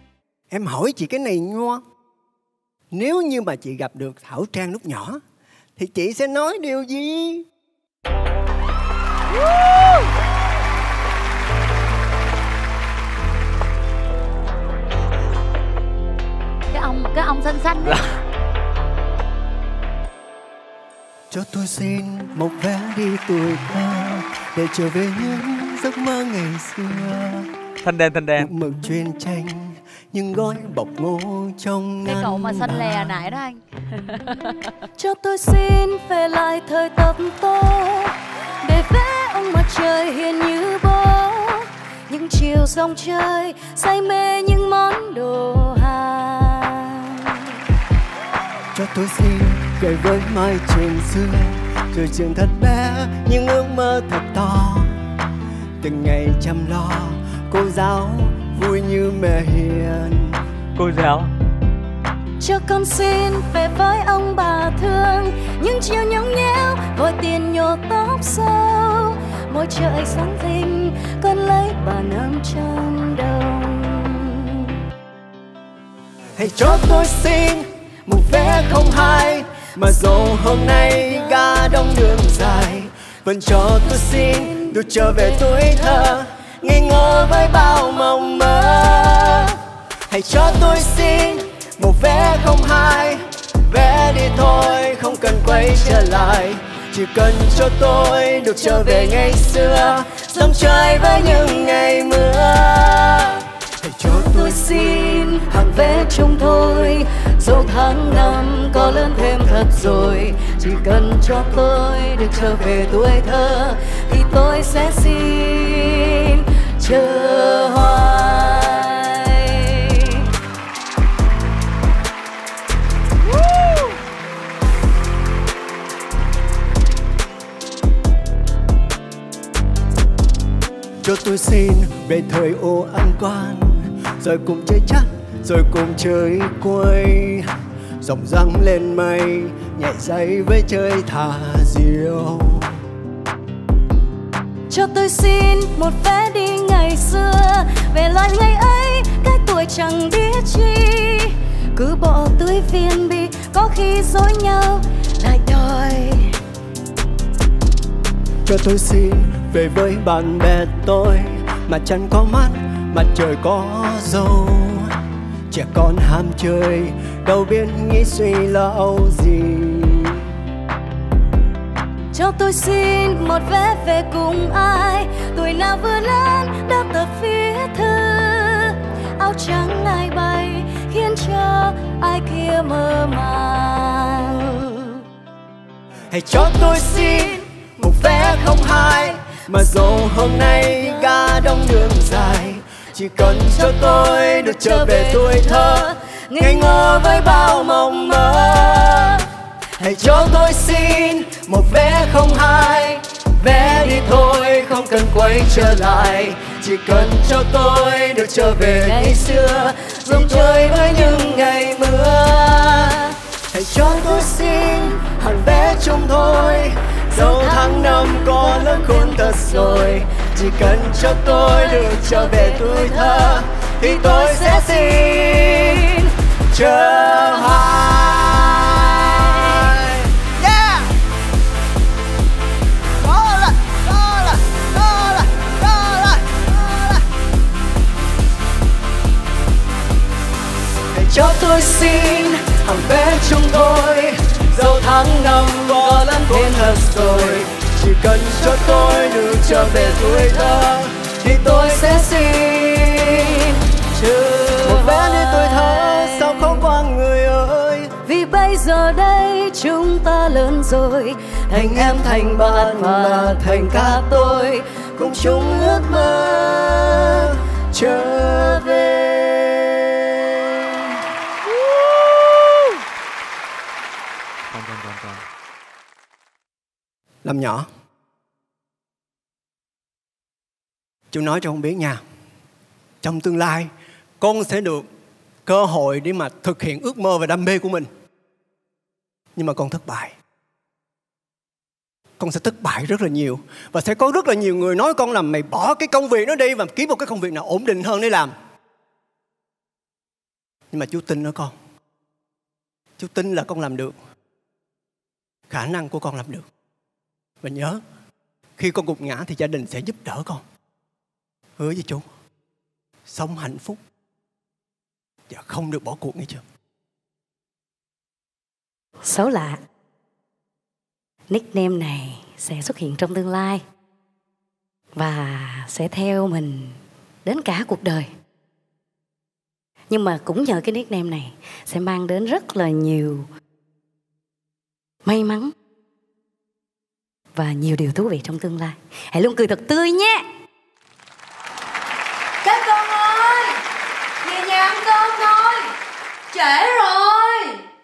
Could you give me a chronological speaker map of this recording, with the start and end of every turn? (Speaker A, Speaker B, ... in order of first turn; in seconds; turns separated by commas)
Speaker A: 0.5-1.8, Speaker A: 2.9-5.2, Speaker A: 5.8-7.5, Speaker B: 16.7-18.0, Speaker A: 21.3-27.5, Speaker C: 27.8-28.5, Speaker A: 28.4-33.4, Speaker B: 32.1-34.5, Speaker D: 35.0-47.5, Speaker A: 48.7-54.9, Speaker A: 55.8-60.4, Speaker C: 60.8-61.3, Speaker D: 62.4-74.8, Speaker A: 76.3-89.6, Speaker A: 90.1-103.0, Speaker D: 100.0-101.9, Speaker D: 102.7-103.4, Speaker A: 103.8-110.3, Speaker D: 104.0-120.3, Speaker A: 131.0-137.5, Speaker A: 138.0-142.8, Speaker D: 144.7-156.4, Speaker A: 158.5-165.0, Speaker A: 165.5-170.3, Speaker D: 172.1-185.0, Speaker A: 186.1-199.2, Speaker D: 194.4-197.8, Speaker A: 199.8-230.9, Speaker D: 208.6-211.1, Speaker D: 217.1-220.1, Speaker D: 221.6-225.0, Speaker A: 233.0-237.0, Speaker A: 240.9-253.2, Speaker D: 245.5-247.5, Speaker D: 250.0-250.6, Speaker D: 253.1-256.7, Speaker A: 254.6-257.9, Speaker D: 258.1-264.6, Speaker A: 261.5-270.3, Speaker C: 274.5-275.2, Speaker A: 277.2-277.7, Speaker A: 281.1-282.0, Speaker A: 283.0-284.9, Speaker A: 285.5-287.9, Speaker A: 289.4-290.2, Speaker A: 292.2-298.3, Speaker A: 300.7-301.5, Speaker A: 303.0-303.9, Speaker A: 305.5-306.5, Speaker A: 307.4-307.8, Speaker A: 308.6-310.4, Speaker A: 311.6-312.1, Speaker A: 313.1-313.8, Speaker A: 315.3-316.4, Speaker D: 319.0-319.6, Speaker D: 321.3-323.6, Speaker D: 325.0-328.1, Speaker D: 329.9-333.3, Speaker D: 335.1-335.5, Speaker D: 337.4-340.3, Speaker D: 342.4-343.5, Speaker D: 344.2-345.7, Speaker D: 346.3-347.6